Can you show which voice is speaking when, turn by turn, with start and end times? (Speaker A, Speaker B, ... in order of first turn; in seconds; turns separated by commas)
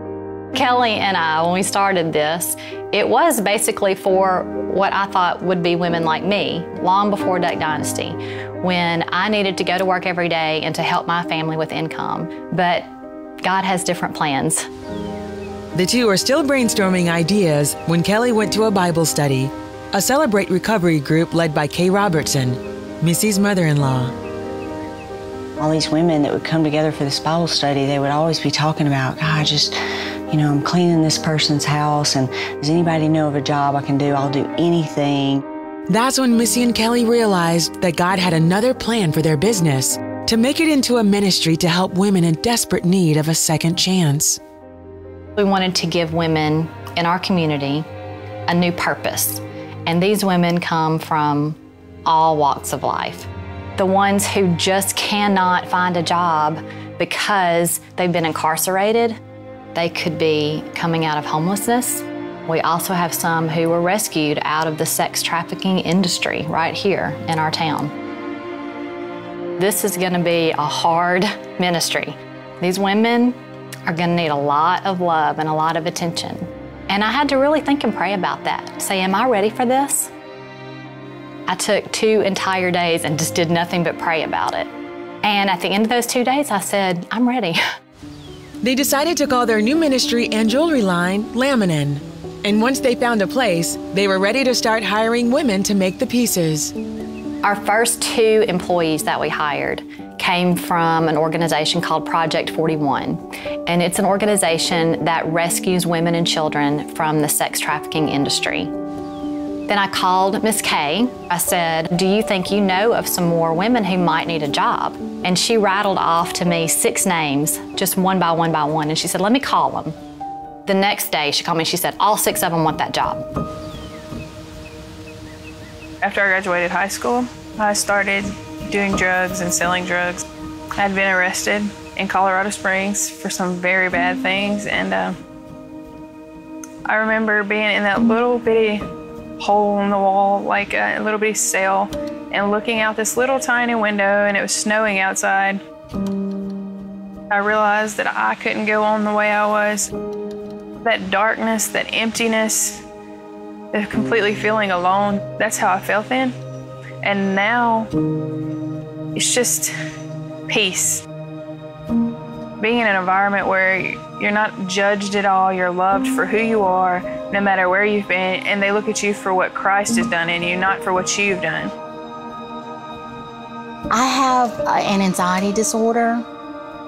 Speaker A: 0.5-12.9, Speaker A: 13.4-14.7, Speaker B: 15.7-24.1, Speaker C: 25.6-29.8, Speaker C: 30.3-35.4, Speaker B: 35.9-44.4, Speaker A: 45.4-47.9, Speaker A: 48.5-59.2, Speaker A: 59.7-67.9, Speaker A: 69.6-80.1, Speaker A: 81.5-84.7, Speaker A: 85.2-87.6, Speaker B: 88.6-96.7, Speaker A: 97.4-108.7, Speaker A: 109.7-120.0, Speaker A: 120.7-123.2, Speaker D: 126.0-130.2, Speaker D: 130.8-135.2, Speaker D: 136.8-138.8, Speaker D: 139.4-145.6, Speaker D: 147.3-149.9, Speaker D: 150.8-152.8, Speaker D: 153.7-156.3, Speaker D: 157.0-157.9, Speaker D: 159.1-159.7, Speaker D: 160.5-161.0, Speaker D: 162.6-171.7, Speaker E: 173.9-176.2